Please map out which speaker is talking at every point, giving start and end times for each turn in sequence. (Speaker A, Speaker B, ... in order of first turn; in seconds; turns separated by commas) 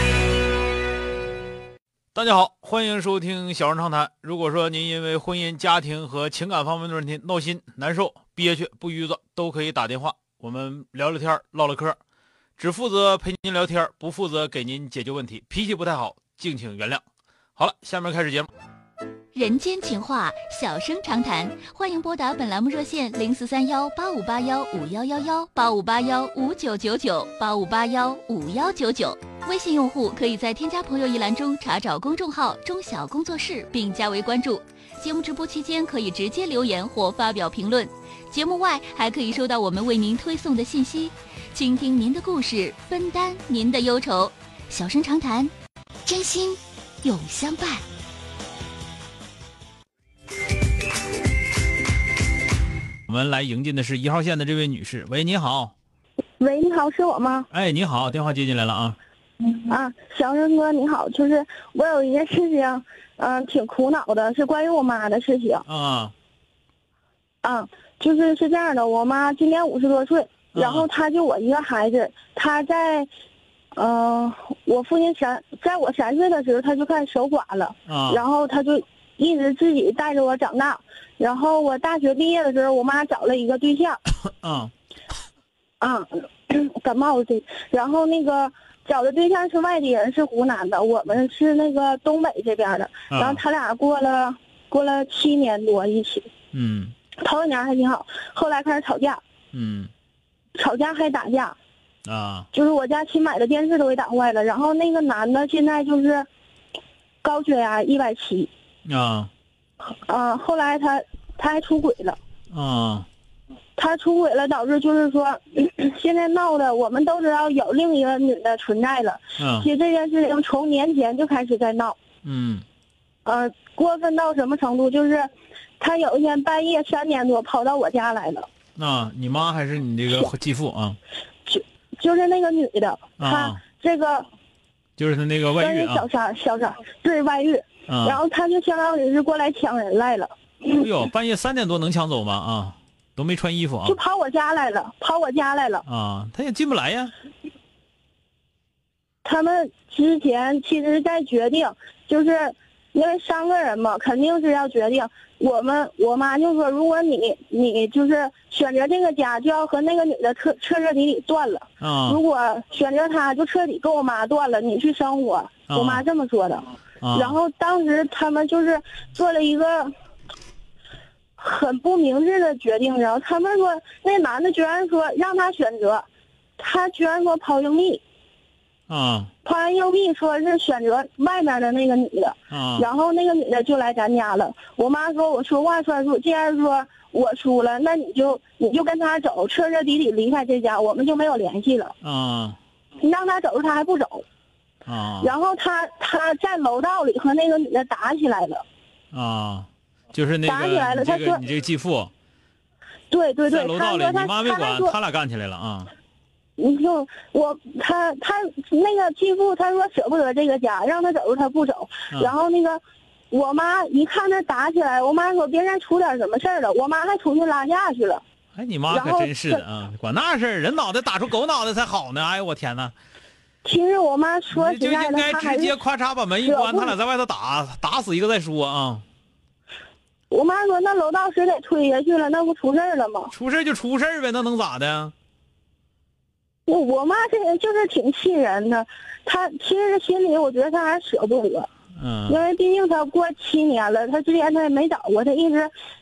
Speaker A: 2.1-12.0, Speaker A: 12.6-17.0, Speaker A: 17.6-18.5, Speaker B: 19.3-45.5, Speaker B: 46.0-47.8, Speaker A: 53.1-55.7, Speaker C: 56.4-57.5, Speaker A: 57.5-59.0, Speaker C: 59.4-65.6, Speaker A: 65.7-66.1, Speaker C: 67.4-73.1, Speaker A: 70.5-70.9, Speaker C: 73.7-84.0, Speaker A: 77.9-78.2, Speaker A: 84.3-84.7, Speaker C: 85.8-96.3, Speaker A: 93.1-93.4, Speaker A: 96.5-96.9, Speaker C: 97.2-99.2, Speaker A: 99.5-99.9, Speaker C: 100.5-101.5, Speaker A: 102.0-102.5, Speaker C: 102.5-106.2, Speaker C: 107.2-108.5, Speaker A: 108.9-109.3, Speaker C: 110.0-112.2, Speaker A: 112.5-113.1, Speaker C: 113.8-122.0, Speaker A: 119.4-119.7, Speaker A: 122.2-122.6, Speaker C: 123.2-125.3, Speaker C: 125.8-128.5, Speaker A: 128.8-131.0, Speaker C: 131.4-134.2, Speaker A: 133.2-133.6, Speaker A: 135.0-136.1, Speaker C: 135.6-140.8, Speaker A: 137.9-138.2, Speaker A: 140.8-144.0, Speaker C: 143.8-145.8, Speaker A: 145.8-147.1, Speaker C: 149.2-169.9, Speaker A: 161.8-162.2, Speaker A: 165.7-166.0, Speaker A: 167.0-167.4, Speaker C: 171.4-176.0, Speaker C: 176.6-178.0, Speaker A: 178.9-179.3, Speaker C: 179.4-191.9, Speaker A: 182.5-182.9, Speaker A: 192.0-192.6, Speaker C: 193.0-194.2, Speaker A: 194.8-195.3, Speaker C: 195.2-198.6, Speaker A: 199.1-202.1, Speaker C: 200.4-201.4, Speaker C: 203.1-204.9, Speaker A: 203.5-205.9, Speaker C: 206.6-218.2, Speaker A: 218.5-222.9, Speaker C: 218.9-219.6, Speaker C: 223.6-225.8, Speaker A: 224.5-229.0, Speaker C: 226.4-226.9, Speaker C: 230.3-233.3, Speaker A: 233.3-235.1, Speaker C: 236.7-241.7, Speaker A: 242.0-242.4, Speaker C: 242.3-245.7